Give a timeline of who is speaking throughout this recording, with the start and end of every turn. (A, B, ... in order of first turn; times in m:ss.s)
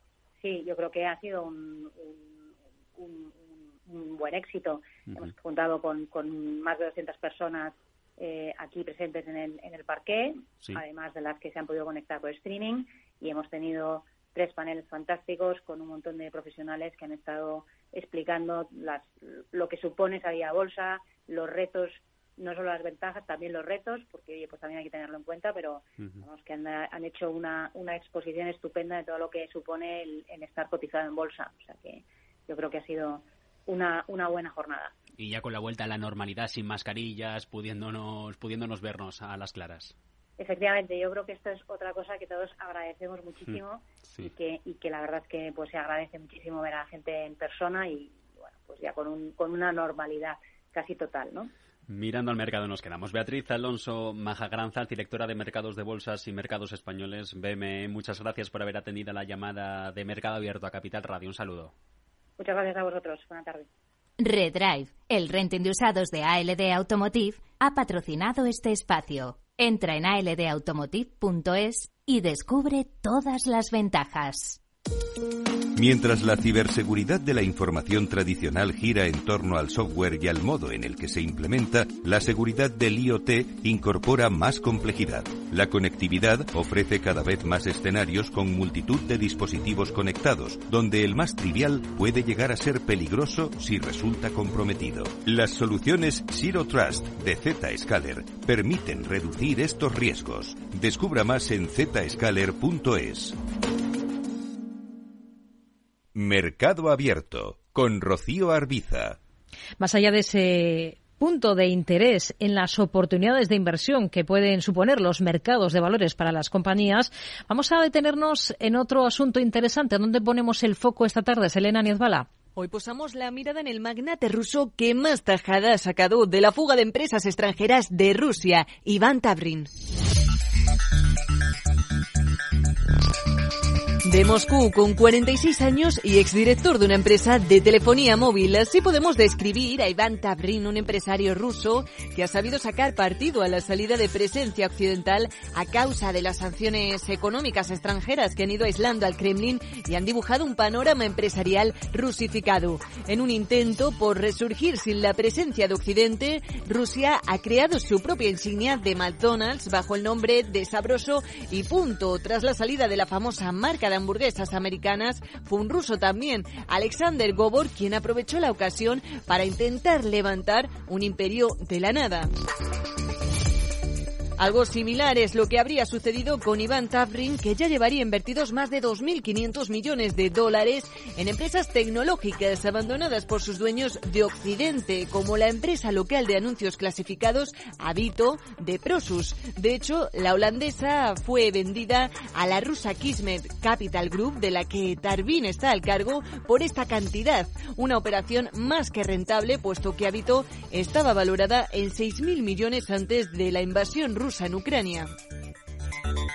0:00.4-0:34.9 A
0:35.2-0:39.9 B
0:40.4-0:51.5 A
0:51.9-1:01.7 B
1:02.4-1:03.7 A
1:04.2-1:14.6 C
1:15.7-1:43.3 D
1:46.1-1:49.2 D
1:49.8-2:02.3 E
2:02.6-2:09.7 F
2:14.0-2:52.3 F
2:54.4-3:25.1 F